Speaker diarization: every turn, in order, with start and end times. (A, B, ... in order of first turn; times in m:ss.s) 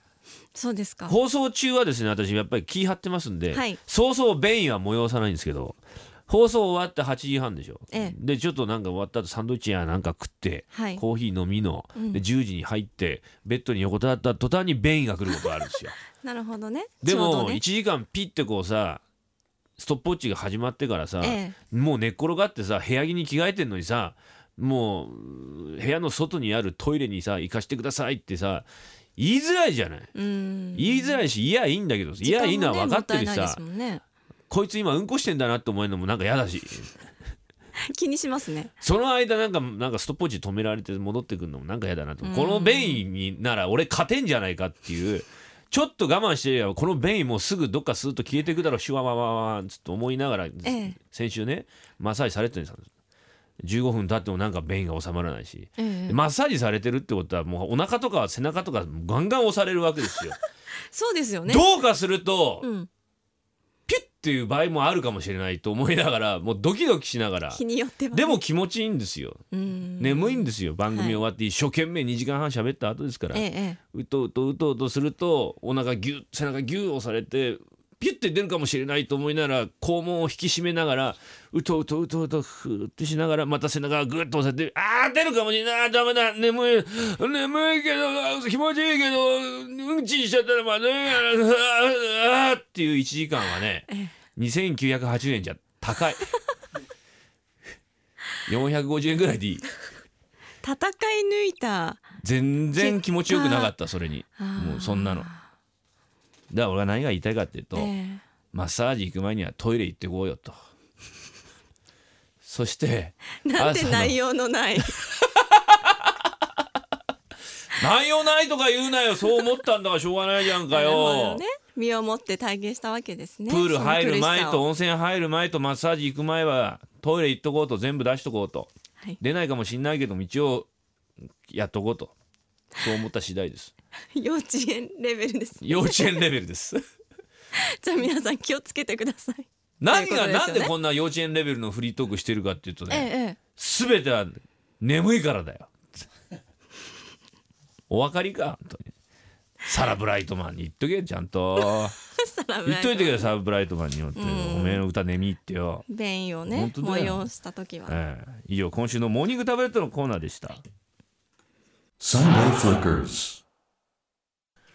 0:00.5-0:01.2 A
0:01.1-0:16.0 B
0:03.5-0:03.8 A
0:10.7-0:11.0 A
0:11.9-0:12.2 A
0:16.2-0:17.6 A
0:17.0-0:19.0 B
0:19.8-0:30.1 B
0:21.2-0:21.6 A
0:30.2-0:31.2 A
0:30.7-0:33.6 B
0:32.2-0:34.0 A
0:34.5-0:37.0 B
0:37.8-0:38.7 A
0:38.8-0:52.9 B
0:42.2-0:43.0 A
0:50.6-0:51.0 A
0:53.6-1:00.4 B
0:55.8-0:56.2 A
1:00.9-1:01.6 A
1:01.5-1:02.7 B
1:02.6-1:02.9 A
1:03.9-1:07.6 B
1:07.5-1:08.4 A
1:08.1-1:09.4 B
1:09.5-1:11.2 A
1:10.0-1:36.3 B
1:13.3-1:13.8 A
1:33.9-1:34.2 A
1:38.4-1:39.7 B
1:40.6-1:42.1 A
1:42.2-1:45.3 B
1:42.8-1:43.7 A
1:44.4-1:45.4 A
1:46.5-1:47.9 B
1:47.7-1:48.2 A
1:48.5-1:50.6 B
1:52.4-1:54.2 B
1:53.4-1:55.0 A
1:55.2-1:56.1 B
1:57.8-2:01.4 B
2:00.7-2:04.6 A
2:03.5-2:10.7 B
2:11.4-2:12.1 B
2:12.8-2:13.7 B
2:14.1-2:16.2 A
2:15.6-2:16.8 B
2:17.5-2:20.7 A
2:19.8-2:25.9 B
2:22.9-2:23.4 A
2:27.9-2:28.9 B
2:29.6-2:32.0 B
2:32.0-2:33.3 A
2:32.6-2:35.8 B
2:34.2-2:34.8 A
2:35.9-2:38.0 A
2:36.5-2:37.3 B
2:37.9-2:40.6 B
2:42.0-2:43.4 B